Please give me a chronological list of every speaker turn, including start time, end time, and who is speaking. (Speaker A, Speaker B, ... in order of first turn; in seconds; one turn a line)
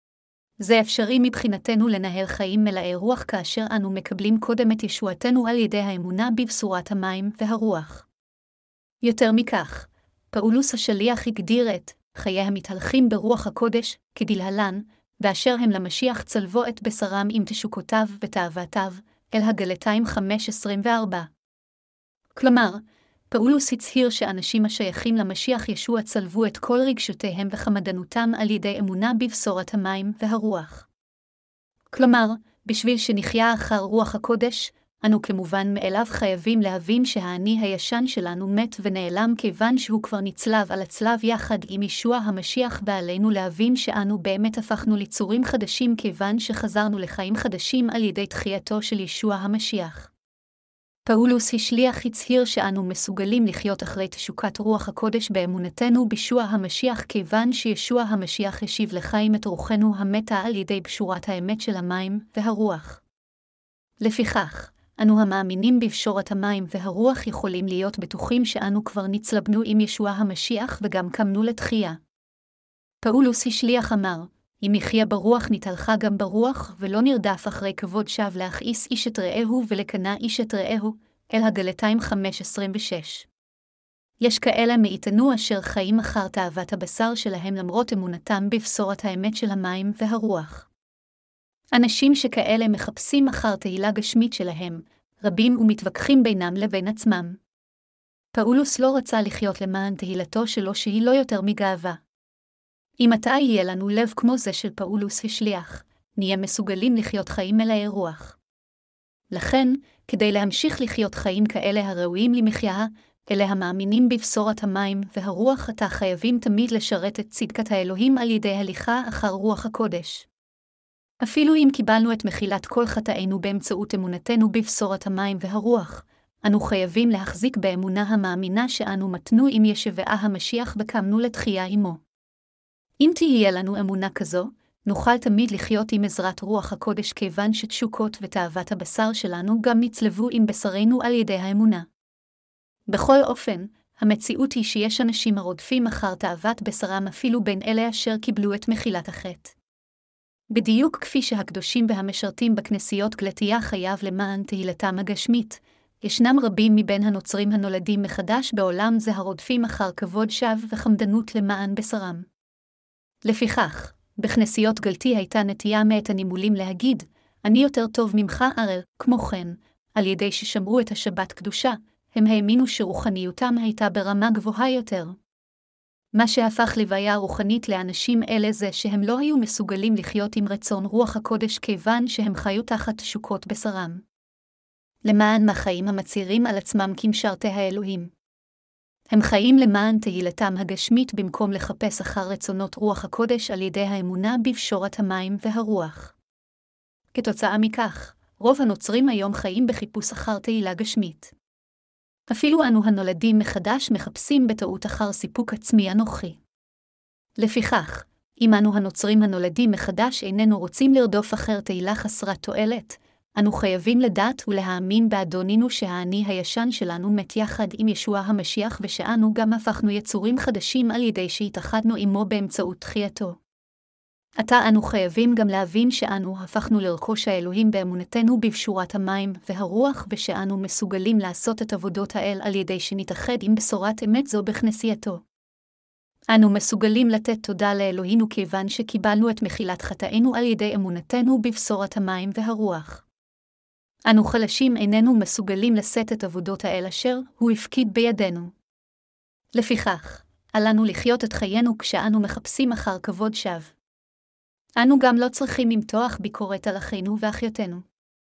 Speaker A: 0.6-8.1
Speaker A: 9.0-21.3
Speaker A: 22.4-30.9
Speaker A: 31.9-50.1
Speaker A: 51.0-63.0
Speaker A: 64.0-72.0
Speaker A: 73.0-83.3
Speaker A: 84.2-90.7
Speaker A: 91.7-97.4
Speaker A: 98.3-102.0
Speaker A: 103.0-108.4
Speaker A: 109.3-120.3
Speaker A: 121.2-132.0
Speaker A: 133.0-141.8
Speaker A: 142.9-149.5
Speaker A: 150.5-162.3
Speaker A: 163.2-175.2
Speaker A: 176.1-184.0
Speaker A: 185.0-188.1
Speaker A: 189.1-196.1
Speaker A: 197.1-201.3
Speaker A: 202.3-206.4
Speaker A: 207.4-223.4
Speaker A: 224.4-235.2
Speaker A: 236.3-243.0
Speaker A: 244.1-248.5
Speaker A: 249.5-253.7
Speaker A: 254.8-257.8